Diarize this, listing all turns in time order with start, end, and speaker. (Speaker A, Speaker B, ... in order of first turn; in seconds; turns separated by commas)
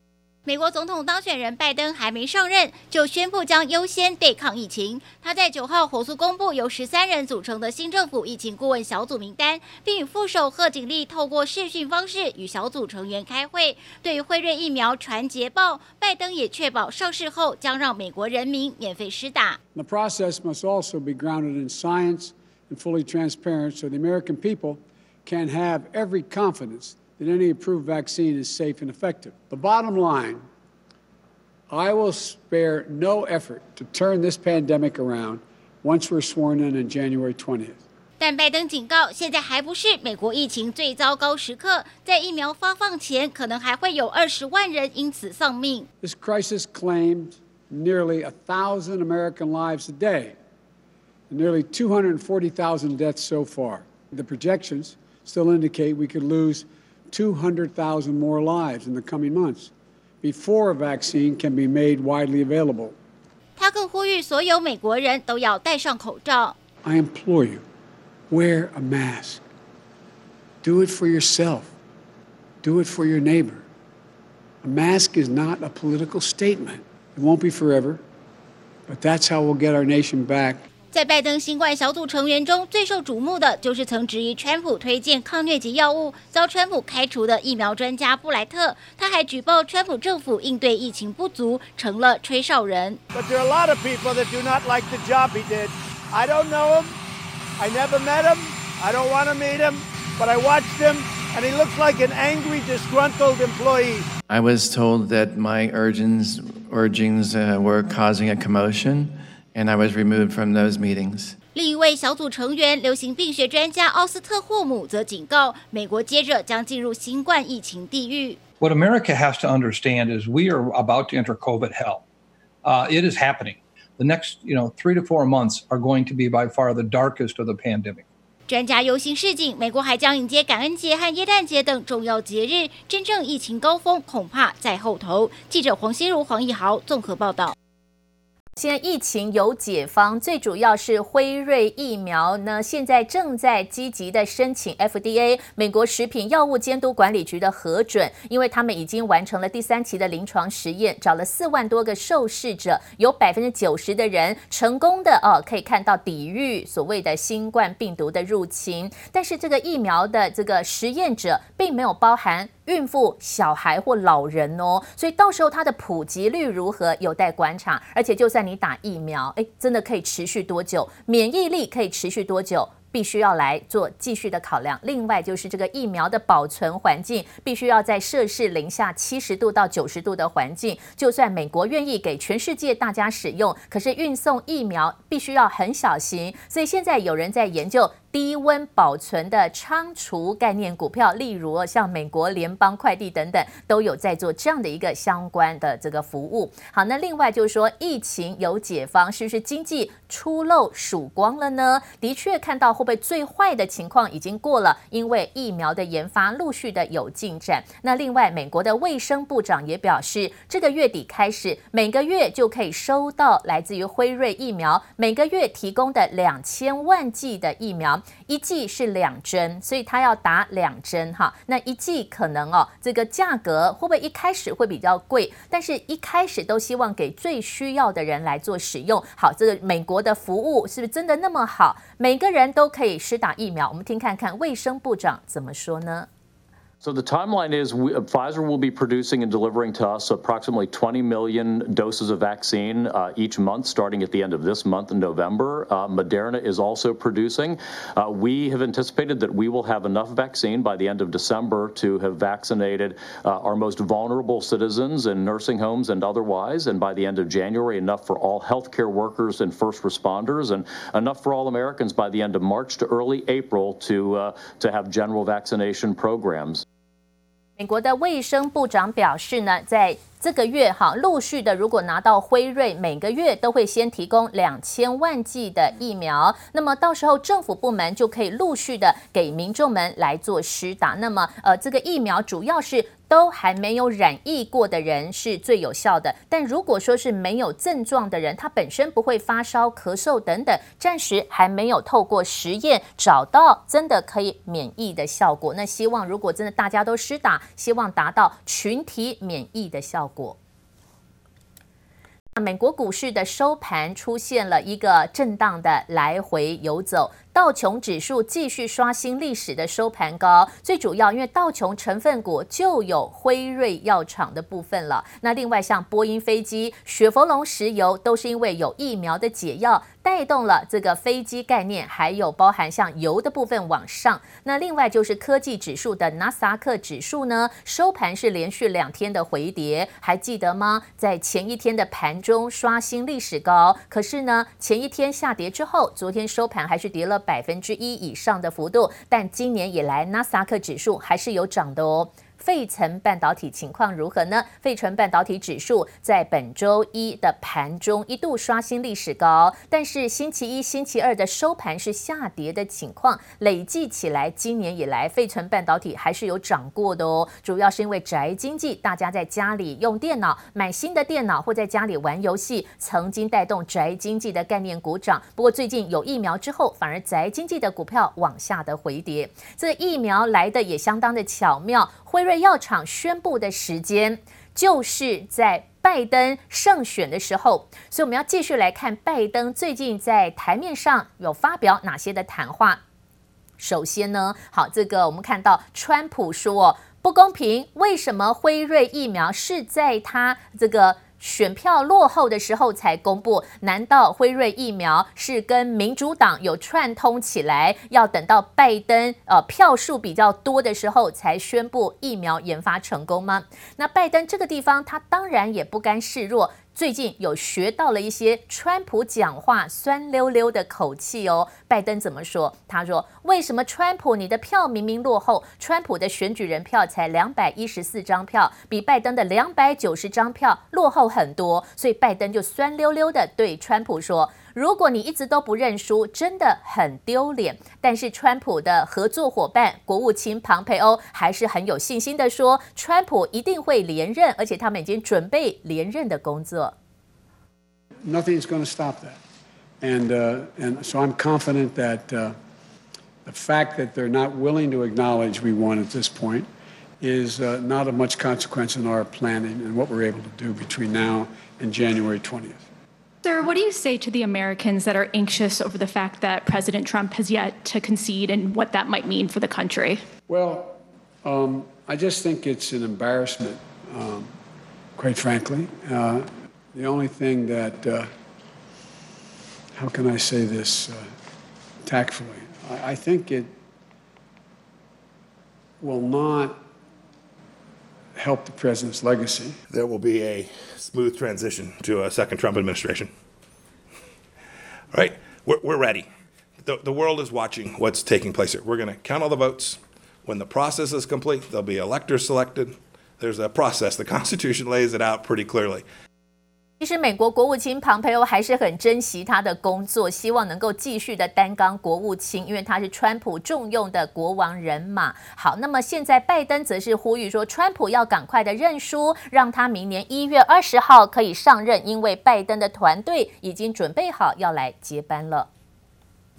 Speaker A: 0.5-19.6, Speaker B: 19.8-30.4, Speaker B: 31.7-37.8, Speaker A: 38.2-45.9, Speaker B: 46.0-50.3, Speaker B: 51.3-59.7, Speaker B: 60.2-63.0, Speaker A: 63.6-66.5, Speaker B: 66.8-67.6, Speaker B: 68.3-69.4, Speaker B: 70.6-71.7, Speaker B: 72.6-73.7, Speaker B: 74.6-78.0, Speaker B: 78.9-80.6, Speaker A: 80.9-93.0, Speaker C: 93.1-97.0, Speaker C: 97.6-104.1, Speaker D: 104.3-111.3, Speaker A: 111.5-118.4, Speaker E: 118.6-122.0, Speaker E: 122.6-128.1, Speaker A: 128.5-137.5, Speaker F: 138.6-236.1, Speaker G: 236.8-266.6, Speaker F: 267.6-300.4, Speaker F: 302.4-382.8, Speaker F: 383.6-436.8, Speaker B: 438.1-439.2, Speaker B: 439.8-442.4, Speaker B: 443.2-446.5, Speaker B: 447.0-452.6, Speaker H: 453.2-460.0, Speaker B: 460.3-464.3, Speaker B: 465.0-468.1, Speaker B: 469.8-471.1, Speaker B: 471.8-473.5, Speaker B: 475.8-476.6, Speaker B: 478.1-479.6, Speaker I: 479.7-483.1, Speaker I: 484.9-486.1, Speaker I: 486.6-495.8, Speaker F: 496.8-515.5